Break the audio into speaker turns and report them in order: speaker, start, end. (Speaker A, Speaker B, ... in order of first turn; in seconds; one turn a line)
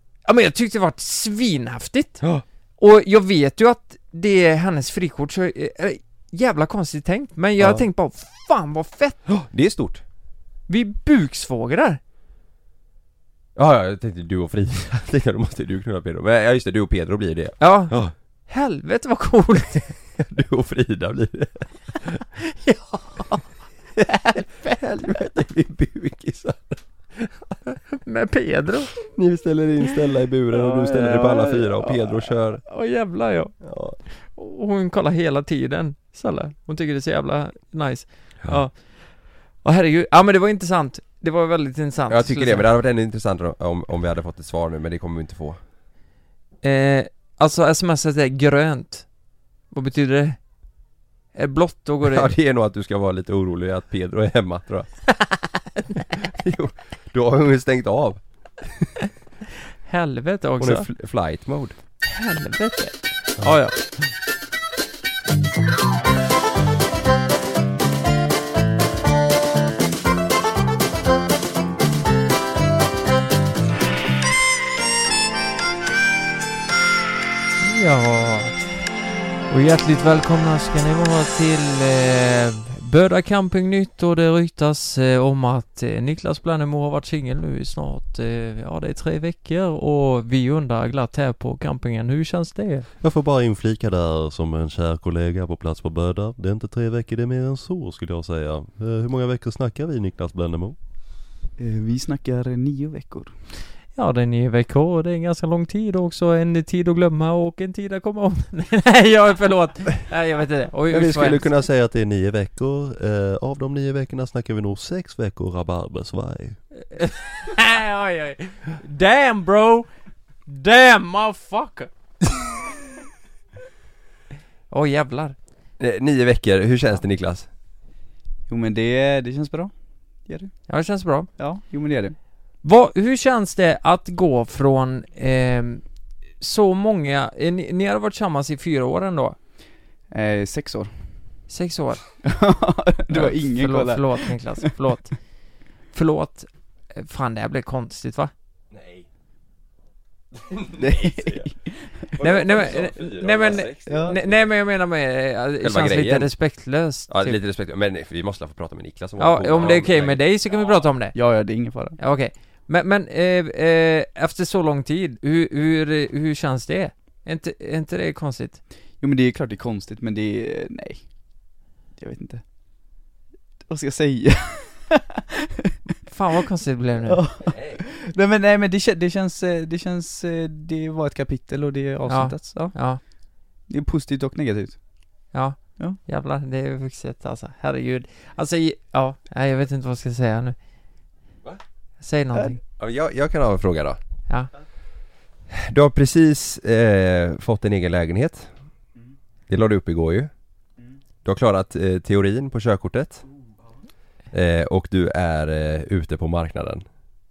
Speaker A: 0.2-2.2
Speaker A: 2.8-9.2
Speaker B: 7.6-7.8
Speaker B: 9.3-10.0
Speaker A: 10.7-12.0
Speaker B: 13.6-18.1
Speaker A: 17.6-19.9
Speaker B: 20.2-22.2
Speaker A: 22.5-23.4
Speaker B: 24.0-27.3
Speaker A: 24.1-24.4
Speaker A: 27.9-29.0
Speaker B: 29.1-32.6
Speaker A: 30.5-33.5
Speaker B: 33.6-34.0
Speaker A: 34.1-42.7
Speaker B: 42.1-45.6
Speaker A: 46.6-49.1
Speaker A: 49.7-50.4
Speaker A: 51.3-52.3
Speaker B: 52.0-55.0
Speaker B: 56.2-58.9
Speaker A: 59.9-60.9
Speaker B: 60.6-61.8
Speaker A: 62.0-63.8
Speaker A: 77.6-78.6
Speaker A: 79.5-92.8
Speaker C: 93.0-100.8
Speaker D: 101.6-103.3
Speaker A: 103.9-111.5
Speaker B: 110.9-111.7
Speaker C: 111.5-116.6
Speaker A: 116.9-119.9
Speaker A: 120.5-121.9
Speaker A: 124.7-125.3
Speaker B: 125.8-127.5
Speaker D: 128.5-129.7
Speaker D: 130.2-130.5
Speaker A: 130.7-131.3
Speaker D: 131.4-132.2
Speaker A: 132.6-135.8
Speaker A: 136.4-139.4
Speaker D: 140.1-140.9
Speaker A: 141.5-142.0
Speaker D: 142.2-144.7
Speaker A: 143.1-145.2
Speaker A: 145.9-148.3
Speaker B: 148.7-149.1
Speaker B: 150.4-151.5
Speaker D: 150.8-151.9
Speaker B: 152.1-154.5
Speaker A: 152.2-157.4
Speaker D: 153.8-154.2
Speaker B: 155.6-156.3
Speaker B: 157.1-160.2
Speaker A: 159.2-161.2
Speaker D: 161.1-161.9
Speaker A: 162.0-168.6
Speaker D: 169.0-171.1
Speaker D: 172.0-172.4
Speaker D: 173.7-175.2
Speaker A: 176.1-177.2
Speaker D: 177.0-182.8
Speaker B: 177.4-177.8
Speaker A: 182.1-183.0
Speaker D: 183.7-184.8
Speaker A: 185.3-190.6
Speaker A: 192.0-192.6
Speaker B: 192.8-194.0
Speaker B: 195.5-198.5
Speaker B: 199.5-200.3
Speaker B: 201.2-203.2
Speaker B: 204.3-206.8